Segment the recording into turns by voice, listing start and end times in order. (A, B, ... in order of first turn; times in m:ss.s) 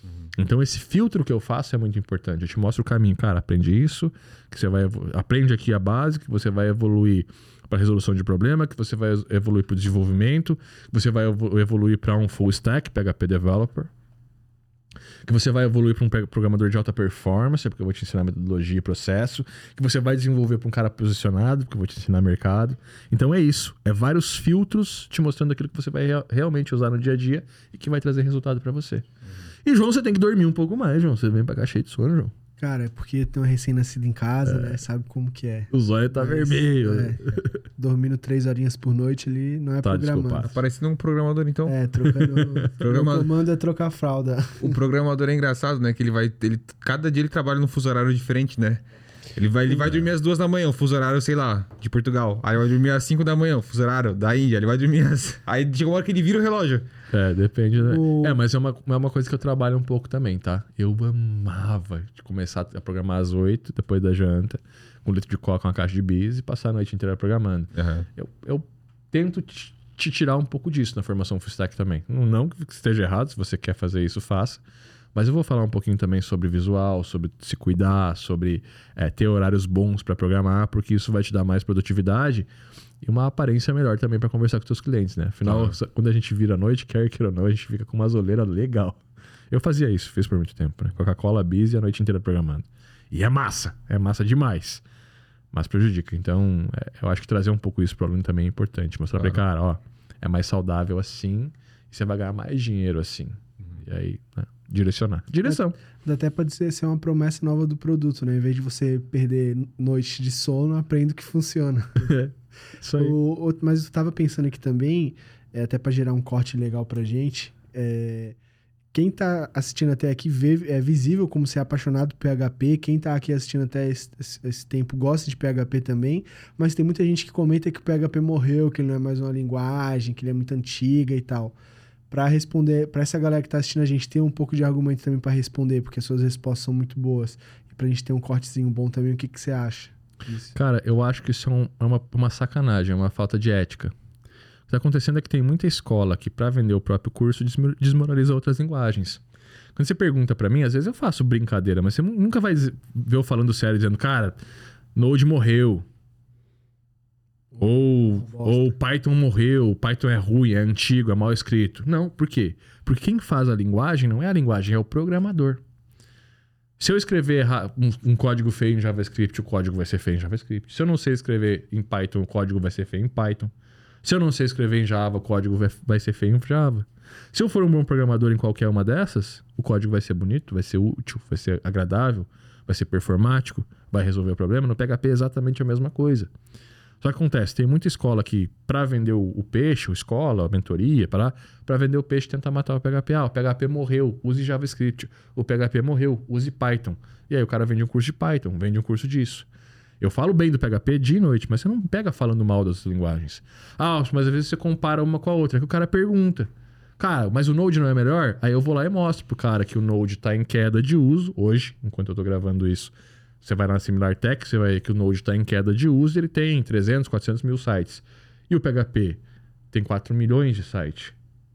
0:00.4-0:13.9 A
0:15.2-0:29.1 A
0:29.6-0:32.3 A
0:32.6-0:40.5 B
0:34.4-0:34.8 A
0:35.7-0:37.5 A
0:39.8-0:40.5 A
0:40.4-0:41.8 C
0:41.7-0:44.8 B
0:42.0-0:42.7 A
0:42.8-0:43.3 C
0:44.6-0:48.8 C
0:49.4-0:56.9 C
0:57.1-1:14.6 A
0:57.8-0:58.4 B
1:07.8-1:08.1 C
1:15.2-1:22.5 A
1:23.0-1:34.8 A
1:25.5-1:25.8 C
1:35.5-1:45.8 A
1:45.4-1:52.1 B
1:52.0-1:53.2 A
1:53.0-1:58.4 B
1:58.9-2:11.6 B
2:12.1-2:20.5 B
2:20.5-2:23.9 A
2:24.7-2:29.2 A
2:29.8-2:34.4 A
2:35.0-2:35.9 A
2:37.5-2:38.7 B
2:37.6-2:45.6 A
2:46.8-2:53.5 A
2:54.0-3:06.3 A
3:07.0-3:19.5 A
3:20.0-3:39.2 A
3:39.7-3:41.2 A